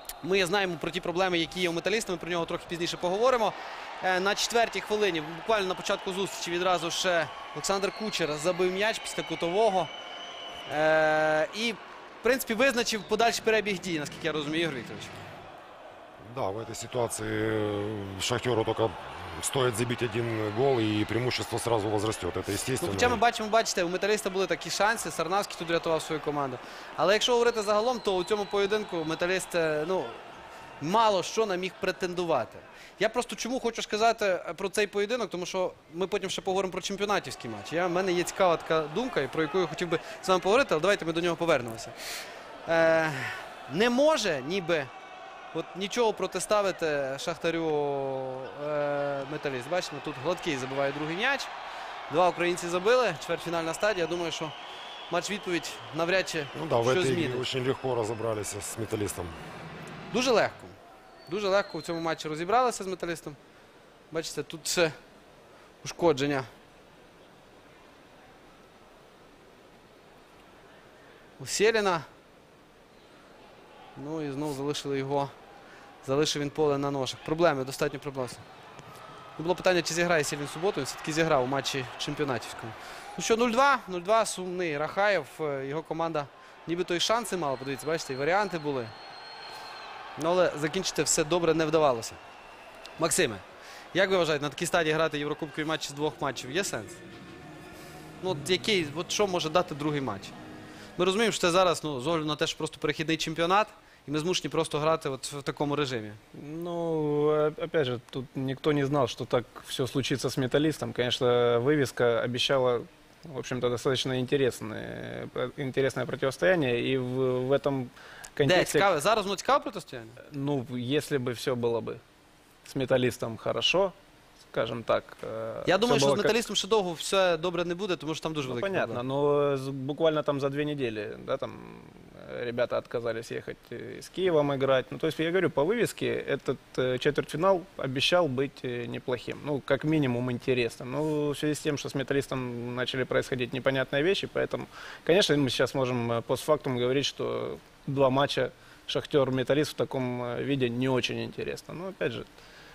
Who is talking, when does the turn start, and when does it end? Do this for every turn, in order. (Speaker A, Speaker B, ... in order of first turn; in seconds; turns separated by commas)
Speaker A: 0.2-9.9, Speaker A: 10.7-15.2, Speaker B: 16.2-23.2, Speaker A: 22.8-30.2, Speaker A: 30.8-42.0, Speaker A: 42.7-44.9, Speaker A: 45.5-51.5, Speaker A: 52.1-54.5, Speaker A: 55.1-57.5, Speaker B: 56.5-59.3, Speaker A: 60.1-60.8, Speaker A: 61.3-63.4, Speaker A: 64.1-65.0, Speaker A: 65.8-66.5, Speaker A: 71.4-72.1, Speaker A: 74.0-75.3, Speaker A: 76.0-78.4, Speaker A: 79.4-88.9, Speaker A: 90.2-92.2, Speaker A: 93.0-97.0, Speaker A: 98.2-100.3, Speaker A: 101.0-106.2, Speaker C: 106.3-118.9, Speaker A: 118.4-120.2, Speaker C: 120.2-122.0, Speaker C: 122.7-124.0, Speaker C: 124.5-126.4, Speaker A: 125.7-129.0, Speaker C: 128.5-152.3